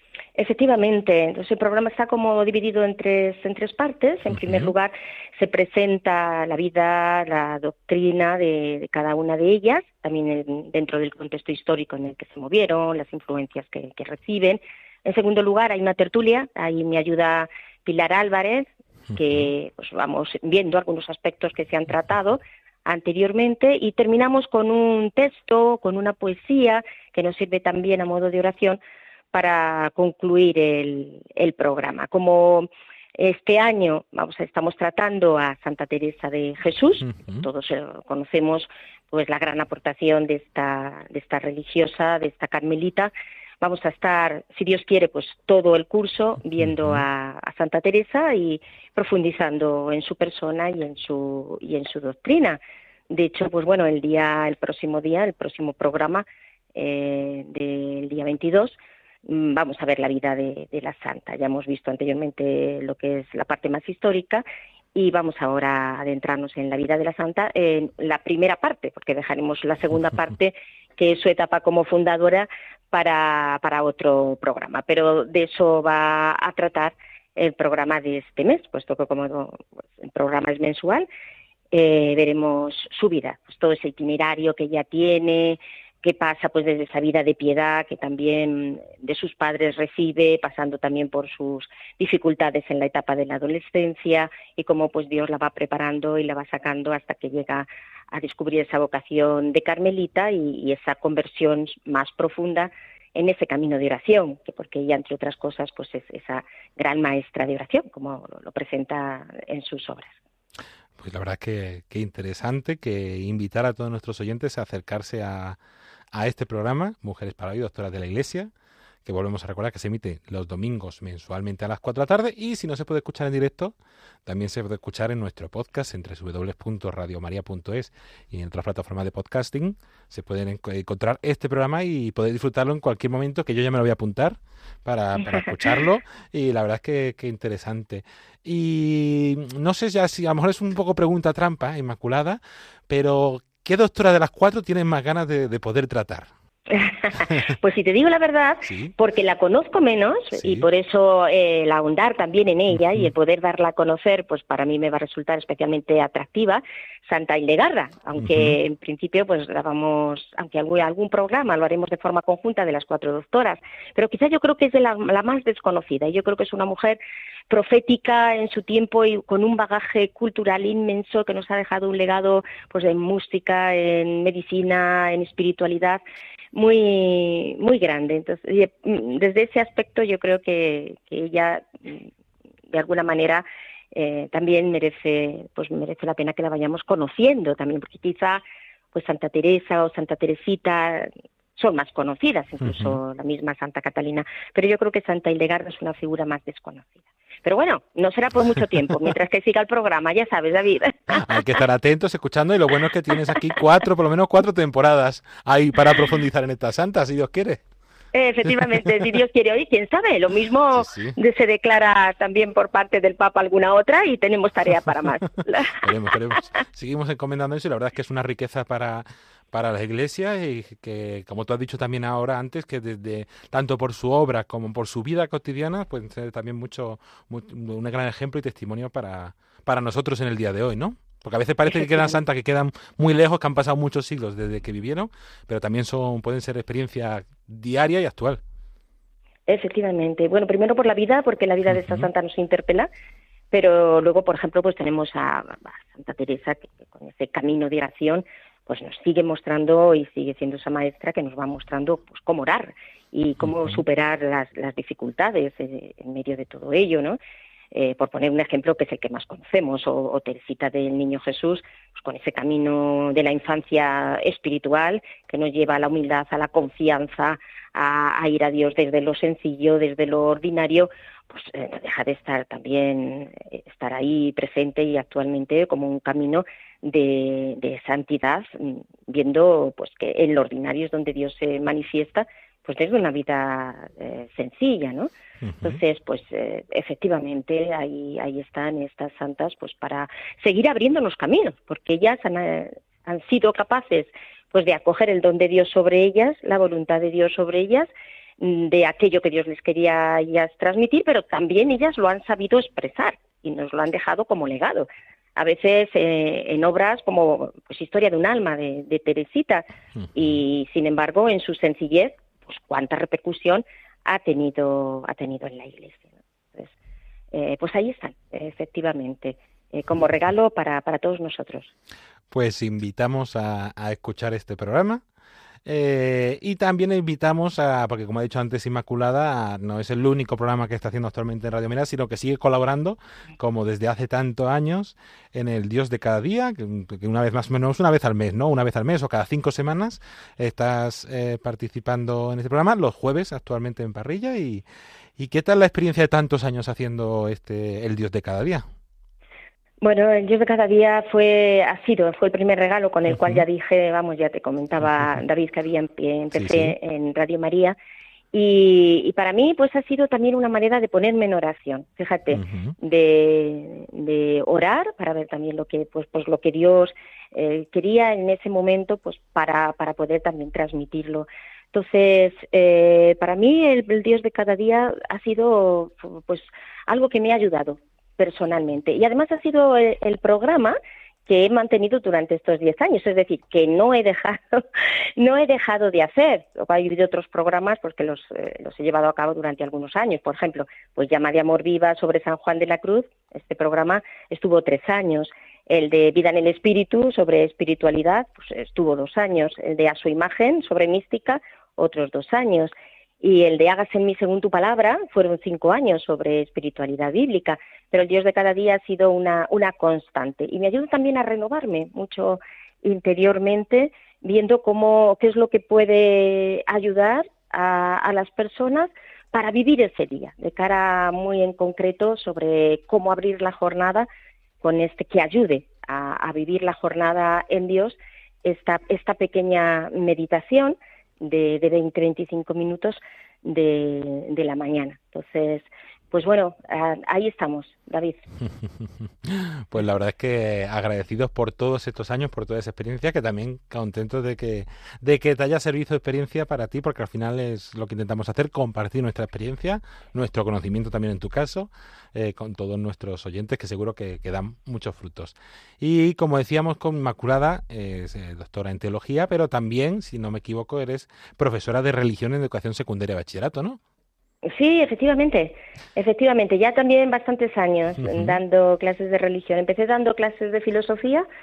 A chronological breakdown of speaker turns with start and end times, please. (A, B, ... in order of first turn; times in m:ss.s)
0:00.4-0:28.8 A
0:04.4-0:04.7 B
0:19.2-0:19.5 B
0:29.3-0:52.6 A
0:37.0-0:37.5 B
0:46.6-0:47.0 B
0:53.1-1:04.4 A
1:05.0-1:21.1 A
1:21.7-1:50.1 A
1:51.0-1:55.6 B
1:56.1-1:58.5 B
1:59.0-2:03.8 B
2:04.3-2:26.3 B
2:26.7-2:47.0 A
2:28.7-2:28.9 B
2:30.3-2:30.7 B
2:38.2-2:38.6 B
2:47.5-2:56.0 A
2:56.5-3:02.1 A
3:02.7-3:21.2 A
3:12.6-3:13.0 B
3:21.2-3:27.6 B
3:28.1-3:35.8 A
3:30.8-3:31.2 B
3:35.8-3:58.4 B
3:51.7-3:52.2 A
3:59.5-4:02.9 A
4:01.7-4:02.1 B
4:03.5-4:17.2 A
4:13.4-4:13.8 B
4:17.7-4:45.1 A
4:45.4-4:45.8 B
4:45.6-5:09.6 A
5:10.0-5:10.4 B
5:10.2-5:16.7 A
5:17.3-5:21.7 A
5:22.3-5:25.0 B
5:25.6-5:44.6 B
5:45.2-5:48.6 B
5:49.8-5:57.8 A
5:53.1-5:53.4 B
5:56.3-5:56.8 B
5:58.3-6:20.8 A
6:02.3-6:02.7 B
6:21.3-6:24.6 A
6:25.2-7:04.1 A
7:04.6-7:18.2 A
7:18.6-7:43.8 B
7:44.5-7:51.2 A
7:48.0-7:48.4 B